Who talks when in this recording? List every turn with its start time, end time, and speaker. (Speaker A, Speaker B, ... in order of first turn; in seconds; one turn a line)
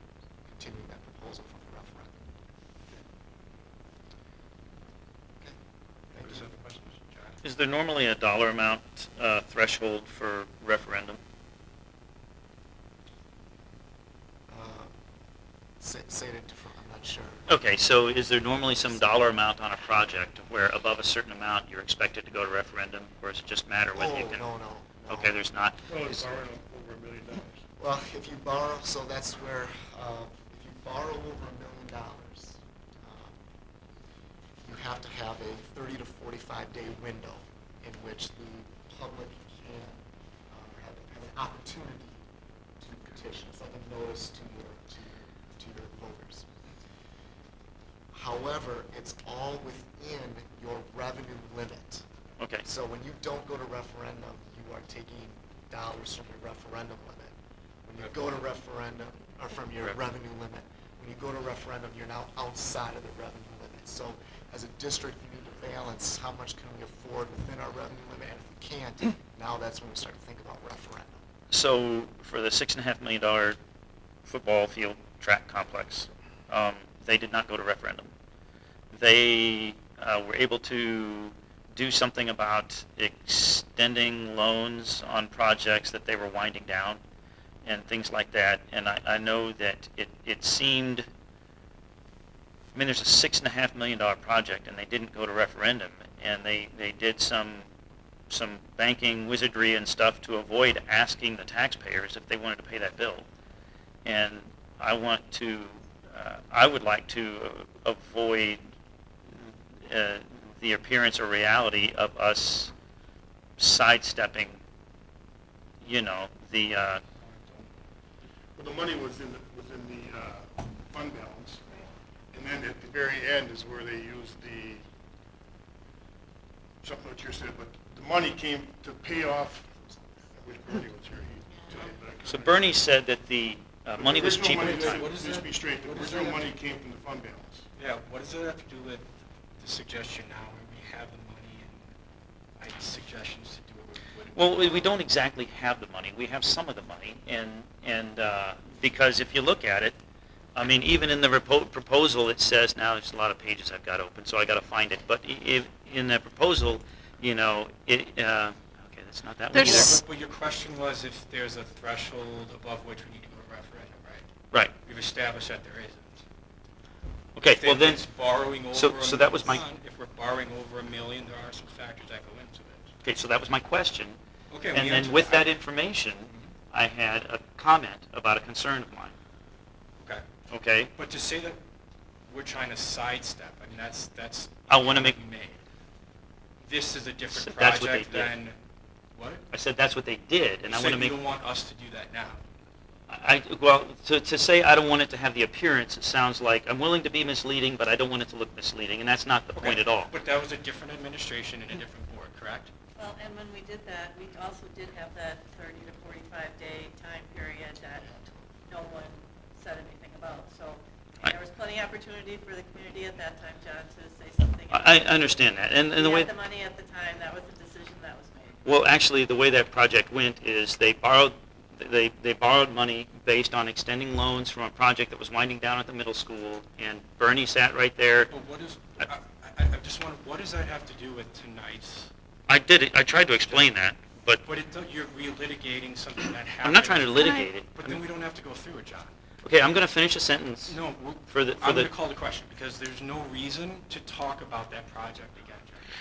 Speaker A: 0.5-2.3
Speaker B: 6.1-7.4
Speaker A: 6.2-6.4
Speaker C: 7.4-11.2
Speaker A: 14.5-15.0
Speaker A: 15.8-17.5
Speaker C: 17.5-24.5
Speaker A: 23.9-25.4
Speaker C: 25.1-26.3
Speaker D: 25.9-27.6
Speaker A: 27.8-33.4
Speaker A: 34.6-42.2
Speaker A: 42.8-46.5
Speaker A: 48.1-52.0
Speaker C: 52.4-52.6
Speaker A: 52.6-57.3
Speaker A: 57.9-71.2
Speaker C: 71.5-73.6
Speaker C: 74.2-78.1
Speaker C: 78.9-87.0
Speaker C: 87.7-91.1
Speaker C: 92.7-97.7
Speaker C: 98.3-103.3
Speaker C: 104.0-108.6
Speaker C: 109.4-112.7
Speaker C: 113.6-114.6
Speaker C: 115.8-117.0
Speaker B: 117.2-117.7
Speaker D: 118.6-121.6
Speaker D: 122.3-124.8
Speaker D: 126.8-132.7
Speaker C: 132.3-135.1
Speaker D: 134.0-137.7
Speaker B: 134.5-136.6
Speaker B: 137.8-139.1
Speaker B: 139.6-141.9
Speaker B: 142.6-144.9
Speaker C: 144.3-150.0
Speaker C: 150.6-160.0
Speaker B: 159.6-164.3
Speaker B: 164.8-166.2
Speaker C: 167.4-168.1
Speaker B: 167.5-172.9
Speaker C: 168.7-169.6
Speaker C: 173.0-174.2
Speaker B: 174.5-175.5
Speaker C: 174.7-179.1
Speaker C: 180.5-180.9
Speaker B: 180.9-181.6
Speaker B: 182.3-185.6
Speaker C: 184.7-185.2
Speaker B: 186.6-188.6
Speaker C: 187.3-188.3
Speaker B: 189.1-189.4
Speaker C: 189.5-191.2
Speaker B: 190.7-192.4
Speaker C: 193.1-200.1
Speaker B: 199.6-202.7
Speaker E: 203.0-208.1
Speaker A: 208.1-208.4
Speaker E: 208.7-218.6
Speaker C: 214.7-216.3
Speaker C: 218.7-228.3
Speaker B: 228.3-232.1
Speaker C: 232.5-234.4
Speaker B: 234.4-239.1
Speaker C: 236.6-238.0
Speaker C: 239.4-240.8
Speaker B: 240.7-245.9
Speaker C: 241.3-241.9